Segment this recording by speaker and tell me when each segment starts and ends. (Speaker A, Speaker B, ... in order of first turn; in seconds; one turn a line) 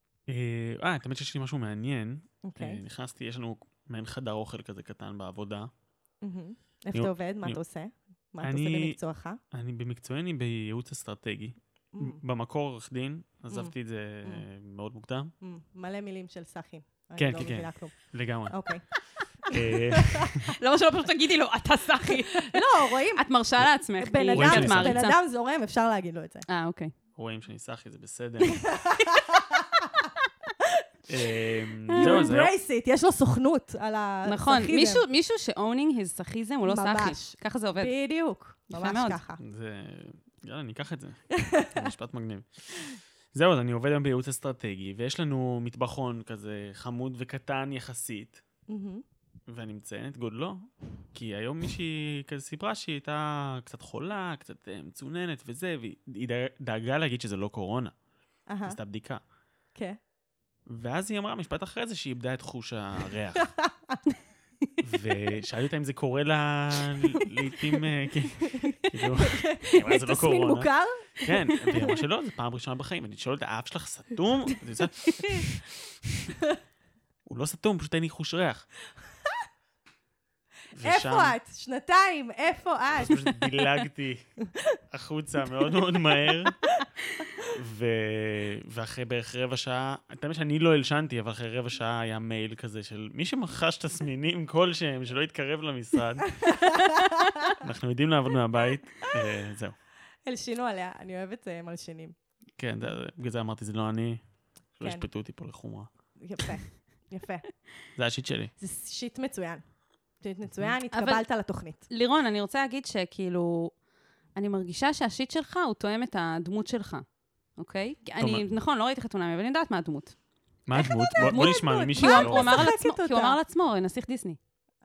Speaker A: 0.3-5.7
Speaker B: 2.4-2.8
Speaker B: 6.2-9.4
Speaker A: 6.9-7.6
Speaker A: 8.4-9.0
Speaker A: 9.5-15.3
Speaker B: 11.9-12.2
Speaker B: 15.4-18.0
Speaker A: 17.2-18.7
Speaker B: 18.5-18.9
Speaker A: 19.5-20.5
Speaker C: 20.5-25.2
Speaker B: 22.4-23.2
Speaker B: 24.0-26.5
Speaker A: 24.4-25.1
Speaker C: 26.5-26.9
Speaker A: 27.2-28.8
Speaker B: 28.7-30.1
Speaker A: 31.1-32.5
Speaker B: 31.9-35.0
Speaker C: 31.9-32.3
Speaker C: 34.3-37.9
Speaker B: 36.6-39.4
Speaker C: 38.7-39.2
Speaker A: 39.4-48.4
Speaker B: 41.4-41.9
Speaker B: 48.7-49.0
Speaker A: 49.5-57.9
Speaker B: 58.5-58.8
Speaker A: 58.7-59.2
Speaker A: 60.7-63.5
Speaker B: 63.4-64.0
Speaker A: 64.8-75.6
Speaker B: 68.5-71.1
Speaker A: 77.3-78.7
Speaker A: 80.7-81.4
Speaker B: 80.8-83.7
Speaker A: 82.9-84.3
Speaker A: 84.9-86.6
Speaker B: 86.3-86.8
Speaker A: 87.5-96.5
Speaker B: 96.5-97.4
Speaker A: 97.6-99.8
Speaker B: 100.2-102.2
Speaker A: 102.6-104.2
Speaker A: 104.8-105.9
Speaker B: 106.2-107.5
Speaker A: 108.0-108.5
Speaker B: 108.6-109.6
Speaker B: 110.2-111.9
Speaker C: 110.9-111.2
Speaker C: 111.9-113.8
Speaker C: 114.3-117.0
Speaker C: 117.6-120.1
Speaker A: 118.2-118.4
Speaker A: 120.7-122.7
Speaker B: 120.8-123.4
Speaker C: 121.2-124.4